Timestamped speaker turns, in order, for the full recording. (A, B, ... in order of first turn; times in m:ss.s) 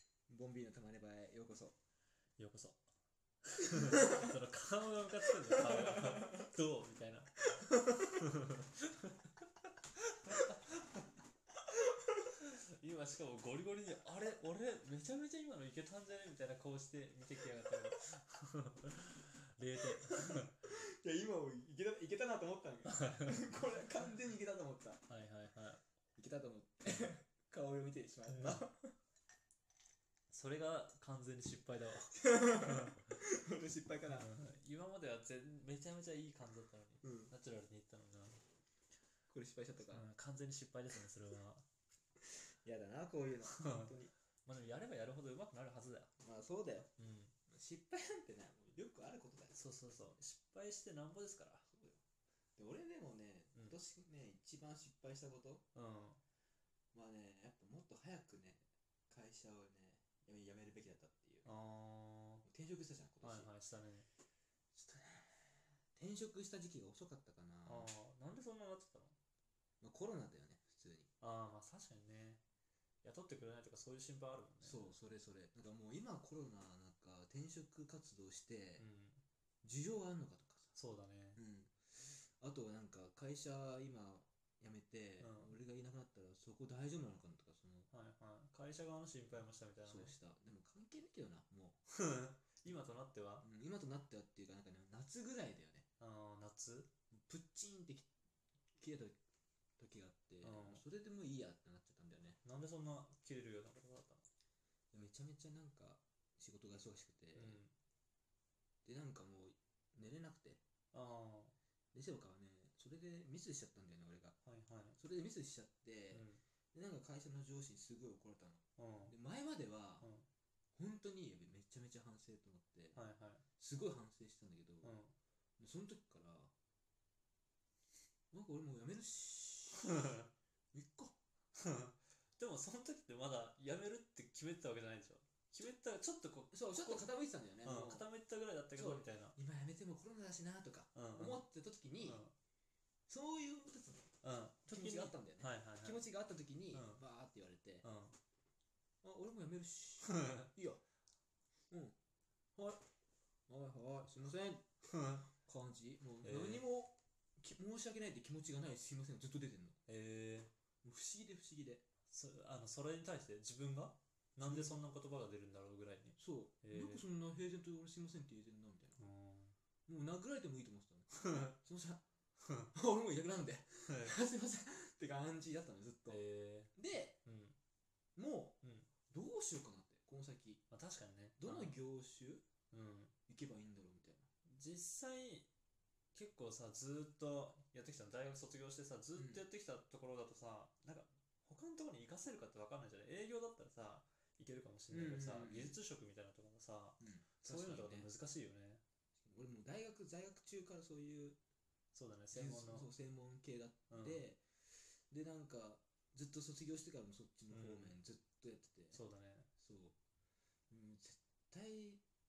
0:00.3-0:01.7 A
0:02.4-0:02.8 B
0:03.4-0:09.3 B
0:03.8-0:04.1 A
0:05.6-0:06.4 A
0:10.2-0:10.8 B
0:12.3-0:20.5 B
0:19.8-0:25.1 A
0:22.8-0:23.5 B
0:25.1-0:25.8 B
0:26.2-0:28.9 A
0:28.3-0:28.6 B
0:30.3-0:33.0 B
0:32.1-0:34.3 A
0:34.1-0:38.4 B
0:37.0-0:37.3 A
0:39.3-0:40.1 A
0:39.9-0:41.6 B
0:42.2-0:44.1 A
0:43.4-0:43.9 B
0:44.4-0:46.1 B
0:46.2-0:46.9 A
0:47.0-0:47.3 B
0:47.5-0:49.6 A
0:49.5-0:51.7 B
0:51.7-0:52.0 A
0:52.6-0:55.6 A
0:55.7-0:56.2 B
0:56.9-1:01.5 A
1:01.4-1:02.4 B
1:02.4-1:03.5 A
1:03.2-1:04.1 B
1:04.7-1:07.9 A
1:07.6-1:09.2 B
1:09.8-1:11.1 A
1:11.2-1:12.4 B
1:13.0-1:14.9 B
1:14.6-1:18.8 A
1:18.8-1:19.2 B
1:19.6-1:20.8 A
1:20.8-1:21.4 B
1:21.4-1:27.9 A
1:25.2-1:25.6 B
1:27.9-1:30.1 B
1:29.8-1:31.8 A
1:31.9-1:33.4 B
1:33.4-1:35.8 A
1:36.0-1:36.9 B
1:37.1-1:38.1 A
1:38.8-1:39.2 A
1:39.8-1:42.4 A
1:40.4-1:40.8 B
1:42.4-1:44.2 B
1:44.9-1:47.6 A
1:47.3-1:47.7 B
1:48.8-1:50.6 A
1:50.9-1:51.6 B
1:51.9-1:54.4 A
1:54.4-1:55.0 B
1:55.0-2:00.1 A
1:56.1-1:56.4 B
1:58.8-1:59.1 B
2:00.0-2:00.2 B
2:00.8-2:03.0 A
2:02.9-2:03.4 B
2:03.6-2:05.0 A
2:04.8-2:05.1 B
2:05.6-2:06.5 A
2:08.3-2:10.2 A
2:09.8-2:10.3 B
2:10.7-2:11.2 A
2:11.5-2:17.1 B
2:16.5-2:18.1 A
2:17.6-2:19.4 B
2:18.7-2:22.2 A
2:20.9-2:21.4 B
2:22.0-2:22.3 B
2:23.1-2:24.1 A
2:24.2-2:26.0 B
2:24.7-2:27.8 A
2:26.7-2:27.0 B
2:27.8-2:28.2 B
2:29.0-2:30.8 A
2:30.0-2:30.5 B
2:31.7-2:32.0 A
2:32.6-2:32.8 A
2:33.5-2:39.8 A
2:34.8-2:35.3 B
2:36.2-2:36.6 B
2:39.9-2:40.5 B
2:40.8-2:41.8 A
2:42.1-2:47.0 B
2:44.4-2:44.8 A
2:46.2-2:49.0 A
2:49.0-2:49.6 B
2:49.9-2:52.0 A
2:51.1-2:51.5 B
2:52.4-2:52.7 B
2:52.7-2:56.2 A
2:53.9-2:54.2 B
2:56.1-2:57.6 B
2:56.7-2:57.2 A
2:58.2-3:00.6 A
2:58.6-2:58.9 B
3:00.7-3:01.8 B
3:01.4-3:02.4 A
3:02.7-3:03.1 B
3:03.3-3:04.3 A
3:04.4-3:05.5 B
3:06.1-3:18.8 B
3:09.1-3:09.4 A
3:14.9-3:15.8 A
3:17.0-3:18.1 A
3:19.2-3:21.4 A
3:21.9-3:22.9 B
3:22.3-3:29.0 A
3:23.9-3:24.2 B
3:27.5-3:28.0 B
3:28.9-3:29.5 B
3:29.6-3:29.9 A
3:30.7-3:32.0 A